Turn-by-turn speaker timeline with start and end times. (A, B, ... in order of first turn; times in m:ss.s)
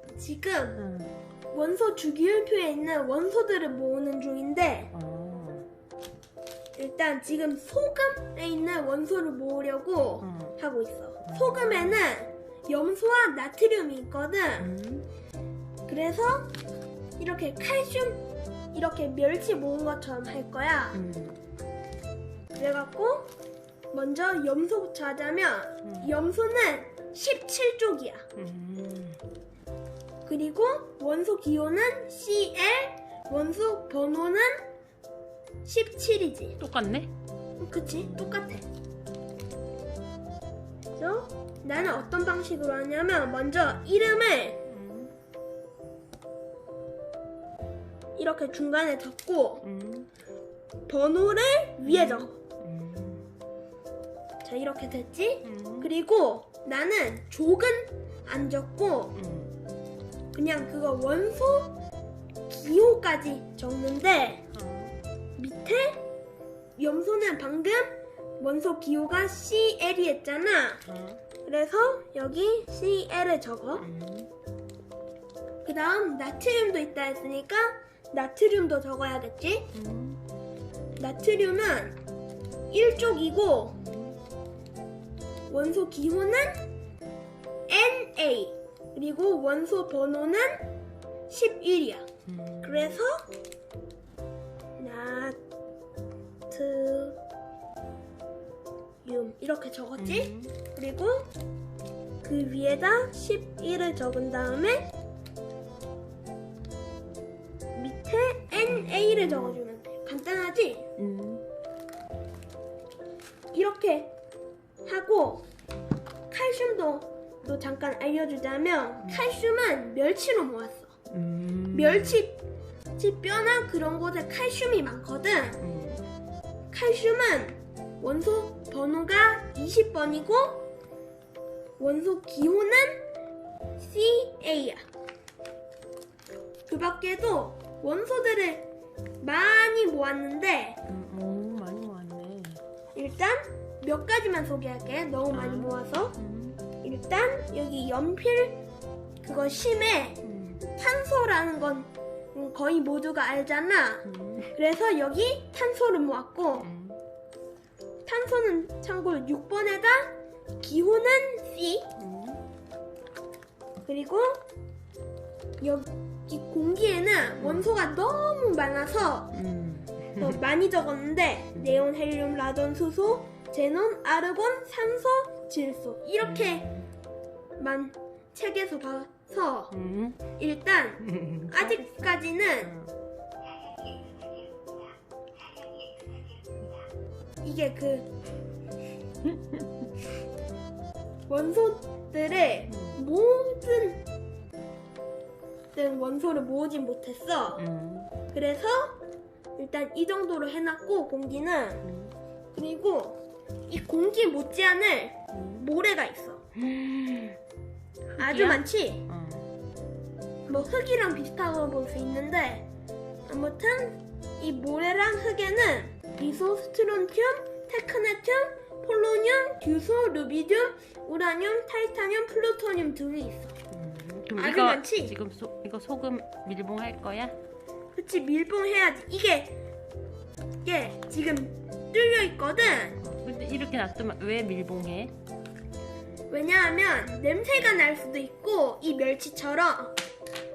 0:00.1-0:00.8 A
0:00.8-0:01.1 B
0:01.5-0:04.9 A
0:04.9-0:05.6 B
0:06.8-0:14.7 A
0:10.2-0:10.5 B
0:11.2-0:12.0 B
0:14.6-0:15.1 B
0:15.9-0:16.5 A
0:17.2-0:18.2 A
0:18.7-0:21.0 A
0:20.9-0:21.4 B
0:22.5-0:23.3 A
0:23.9-0:28.2 A
0:25.8-0:26.1 B
0:28.4-0:29.2 B
0:30.2-0:34.6 A
0:35.6-0:36.6 A
0:36.6-0:37.1 B
0:37.6-0:38.6 A
0:37.9-0:38.4 B
0:41.0-0:44.6 A
0:44.7-0:45.1 B
0:48.2-0:49.6 A
0:49.6-0:50.1 B
0:50.9-0:52.4 A
0:51.8-0:53.2 B
0:54.4-0:59.2 A
0:55.4-0:55.9 B
0:59.1-0:59.5 B
1:00.3-1:01.7 A
1:02.5-1:04.4 A
1:04.5-1:05.0 B
1:05.4-1:06.0 A
1:06.8-1:10.8 A
1:10.8-1:11.2 B
1:11.4-1:13.8 A
1:13.8-1:14.3 B
1:15.6-1:19.7 A
1:19.7-1:20.2 B
1:21.0-1:22.0 A
1:22.7-1:23.8 A
1:23.7-1:24.2 B
1:25.5-1:26.6 A
1:27.7-1:30.7 A
1:31.3-1:32.1 A
1:32.3-1:33.0 B
1:32.6-1:33.3 A
1:34.8-1:35.4 A
1:36.5-1:37.2 A
1:39.0-1:41.3 A
1:40.0-1:40.5 B
1:42.2-1:44.9 A
1:47.7-1:50.9 A
1:48.8-1:49.6 B
1:51.0-1:51.4 B
1:53.5-1:54.1 A
1:54.8-1:55.4 A
1:56.3-2:00.9 A
2:01.1-2:02.2 B
2:01.7-2:02.4 A
2:03.0-2:05.6 A
2:05.6-2:06.0 B
2:06.7-2:10.7 A
2:11.8-2:13.0 A
2:13.8-2:14.8 A
2:16.7-2:18.7 A
2:19.2-2:20.8 A
2:20.8-2:22.6 B
2:22.9-2:26.2 A
2:25.3-2:26.6 B
2:26.8-2:28.6 A
2:29.2-2:34.0 A
2:30.2-2:30.6 B
2:34.0-2:34.5 B
2:34.5-2:36.7 A
2:36.6-2:37.0 B
2:38.0-2:41.9 A
2:42.0-2:42.4 B
2:43.8-2:44.4 A
2:45.6-2:49.3 A
2:47.4-2:47.7 B
2:49.3-2:50.4 B
2:50.2-2:56.7 A
2:51.5-2:51.8 B
2:56.2-2:56.9 B
2:57.6-2:59.7 A
2:59.7-3:00.2 B
3:00.4-3:02.7 A
3:01.0-3:02.0 B
3:02.6-3:02.9 B
3:07.4-3:08.1 A
3:11.3-3:14.0 A
3:12.7-3:13.0 B
3:15.7-3:17.6 A
3:17.5-3:18.1 B
3:18.3-3:19.0 A
3:19.6-3:21.8 A
3:21.8-3:22.1 B
3:22.5-3:26.4 A
3:25.3-3:25.6 B
3:26.6-3:27.4 B
3:28.1-3:29.5 B
3:28.2-3:29.0 A
3:30.5-3:32.6 A
3:33.3-3:43.5 A
3:36.2-3:36.4 B
3:43.7-3:47.4 B
3:44.4-3:45.2 A
3:47.9-3:49.6 A
3:50.6-3:53.0 A
3:53.0-3:55.1 B
3:56.3-4:00.0 A